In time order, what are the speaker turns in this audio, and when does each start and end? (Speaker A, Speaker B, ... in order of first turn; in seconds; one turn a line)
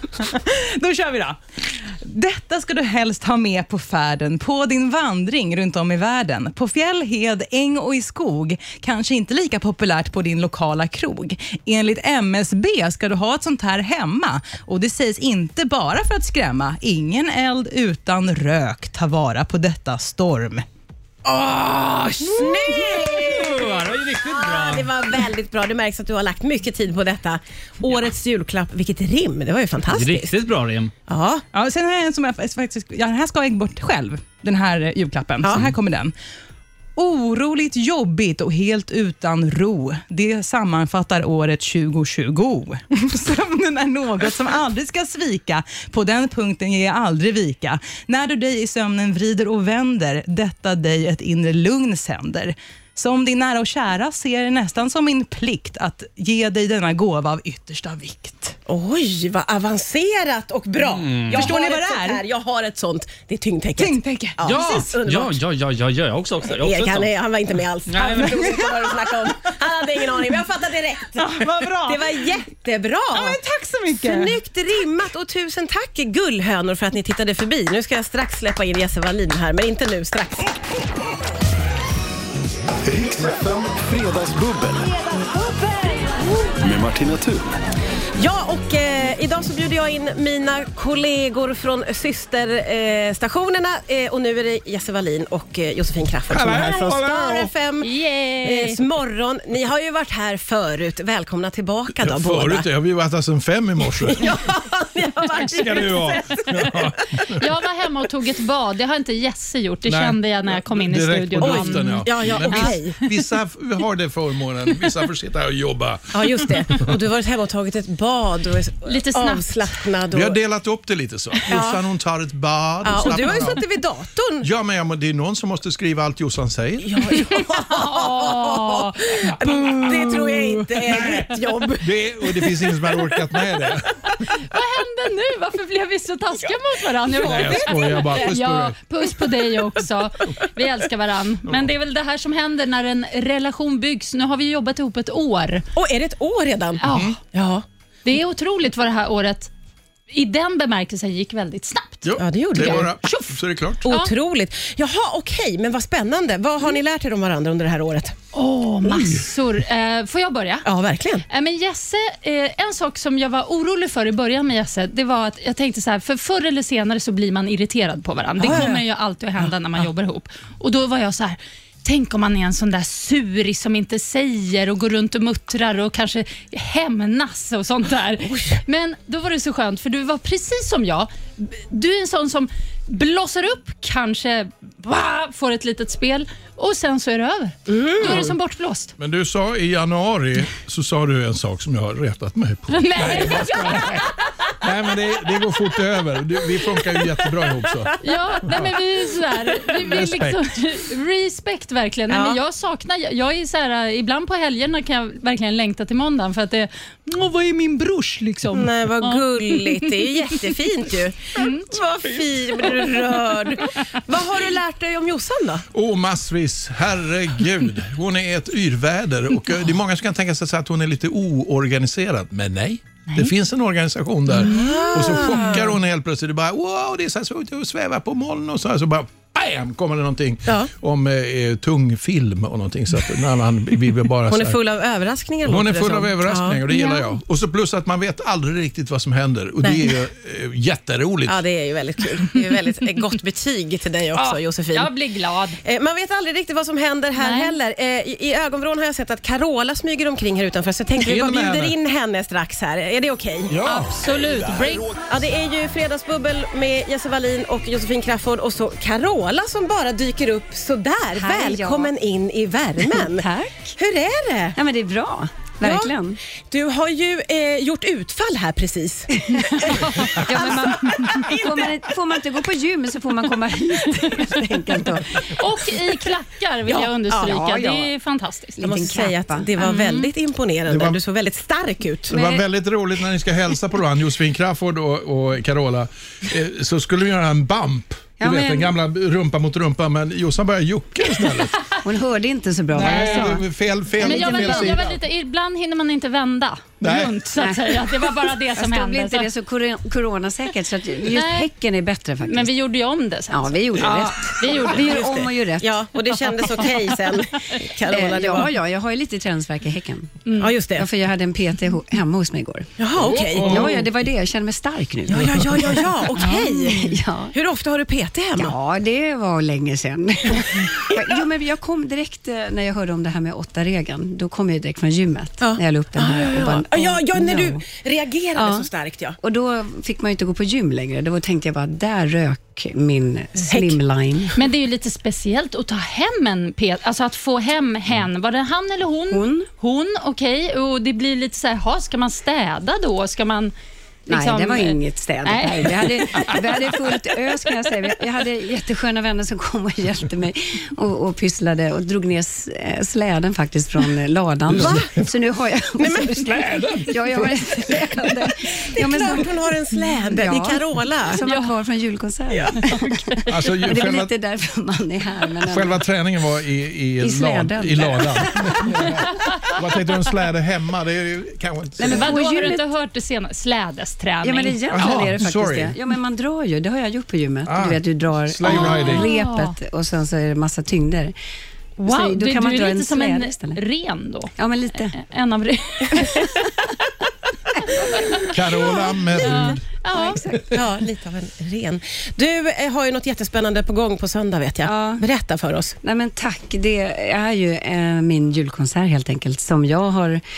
Speaker A: 0.2-20.6
Speaker B: 21.2-24.9
Speaker C: 22.2-30.4
Speaker B: 29.9-30.9
Speaker C: 31.1-31.4
Speaker A: 31.5-36.1
Speaker C: 35.4-35.7
Speaker A: 37.0-58.5
Speaker C: 58.7-65.4
Speaker B: 60.8-61.5
Speaker A: 61.3-62.2
Speaker A: 63.8-64.5
Speaker B: 64.4-67.1
Speaker C: 66.5-73.4
Speaker B: 67.9-68.6
Speaker A: 71.2-72.4
Speaker A: 73.1-74.4
Speaker C: 74.0-80.6
Speaker D: 82.9-85.0
Speaker D: 86.6-87.5
Speaker C: 88.2-97.9
Speaker E: 96.3-97.5
Speaker F: 97.8-98.8
Speaker C: 98.4-102.7
Speaker E: 102.0-104.3
Speaker C: 104.0-106.9
Speaker E: 105.5-107.5
Speaker F: 107.3-112.8
Speaker E: 109.9-117.0
Speaker C: 111.4-113.1
Speaker C: 116.1-120.4
Speaker F: 118.9-119.5
Speaker E: 120.1-123.6
Speaker C: 121.5-121.8
Speaker C: 122.8-124.5
Speaker E: 124.4-127.0
Speaker C: 126.8-132.5
Speaker F: 127.1-129.3
Speaker E: 129.8-130.1
Speaker E: 130.8-133.9
Speaker F: 134.1-145.6
Speaker E: 137.2-138.8
Speaker C: 137.2-138.3
Speaker C: 145.8-146.8
Speaker E: 146.8-147.2
Speaker F: 146.8-147.2
Speaker C: 147.3-147.6
Speaker F: 148.0-149.5
Speaker F: 150.1-152.1
Speaker E: 152.0-153.9
Speaker C: 152.2-152.9
Speaker F: 152.6-154.1
Speaker C: 153.9-158.1
Speaker F: 158.3-160.7
Speaker E: 158.8-159.2
Speaker C: 160.6-161.2
Speaker F: 161.3-188.9
Speaker C: 168.4-168.8
Speaker C: 178.3-178.6
Speaker C: 187.7-188.3
Speaker E: 188.0-188.3
Speaker E: 189.0-198.7
Speaker F: 192.7-194.5
Speaker F: 198.0-210.3
Speaker E: 199.7-200.4
Speaker C: 202.1-202.4
Speaker C: 208.5-215.6
Speaker F: 211.4-211.7
Speaker E: 215.7-234.6
Speaker C: 224.4-225.7
Speaker F: 224.6-225.1
Speaker C: 234.3-236.6
Speaker E: 235.4-241.4
Speaker F: 236.7-237.1
Speaker C: 239.6-239.9
Speaker C: 241.3-245.0
Speaker F: 244.2-245.6
Speaker C: 245.6-253.6
Speaker F: 247.2-247.5
Speaker E: 251.0-251.7
Speaker E: 253.5-254.7
Speaker F: 253.6-254.9
Speaker C: 255.1-263.3
Speaker G: 261.1-261.9
Speaker G: 262.8-263.8
Speaker C: 263.8-264.6
Speaker G: 264.5-266.2
Speaker C: 265.6-265.9
Speaker C: 266.5-271.5
Speaker G: 269.2-275.4
Speaker F: 275.2-278.6
Speaker C: 276.7-277.5
Speaker G: 277.2-277.9
Speaker G: 278.6-279.5
Speaker C: 278.6-282.1
Speaker F: 279.6-280.1
Speaker E: 280.7-281.0
Speaker G: 282.1-282.4
Speaker E: 282.1-291.6
Speaker G: 288.2-288.8
Speaker G: 291.8-293.4
Speaker F: 292.8-293.4
Speaker E: 292.8-295.0
Speaker G: 294.0-294.8
Speaker F: 294.0-299.3
Speaker E: 296.8-297.1
Speaker G: 297.4-302.5
Speaker F: 301.1-301.5
Speaker F: 302.2-304.9
Speaker G: 303.3-305.8
Speaker C: 304.7-308.5
Speaker G: 307.9-312.8
Speaker F: 310.3-310.5
Speaker C: 310.4-310.9
Speaker C: 312.8-313.8
Speaker E: 313.0-313.8
Speaker G: 313.4-317.3
Speaker C: 315.1-318.5
Speaker G: 318.4-327.6
Speaker C: 325.4-329.2
Speaker G: 328.4-328.7
Speaker G: 329.2-334.4
Speaker C: 333.4-333.8
Speaker F: 334.4-343.5
Speaker G: 339.1-339.5
Speaker G: 344.1-359.4
Speaker F: 344.1-346.5
Speaker E: 354.5-354.8
Speaker C: 354.6-354.9
Speaker C: 355.8-356.4
Speaker E: 356.4-357.3
Speaker C: 358.8-361.2
Speaker G: 360.1-365.8
Speaker F: 361.2-361.5
Speaker C: 362.3-362.6
Speaker F: 362.7-363.2
Speaker E: 363.3-364.1
Speaker E: 365.5-372.1
Speaker G: 367.0-368.7
Speaker G: 371.8-372.6
Speaker F: 371.8-375.0
Speaker G: 374.2-381.1
Speaker E: 374.7-375.7
Speaker E: 377.5-379.1
Speaker F: 378.4-379.5
Speaker G: 381.8-383.6
Speaker F: 381.8-384.3
Speaker G: 384.4-385.0
Speaker F: 384.9-386.3
Speaker F: 387.8-390.2
Speaker E: 388.3-389.6
Speaker G: 389.9-390.4
Speaker C: 390.5-395.8
Speaker G: 394.6-395.0
Speaker G: 395.8-400.2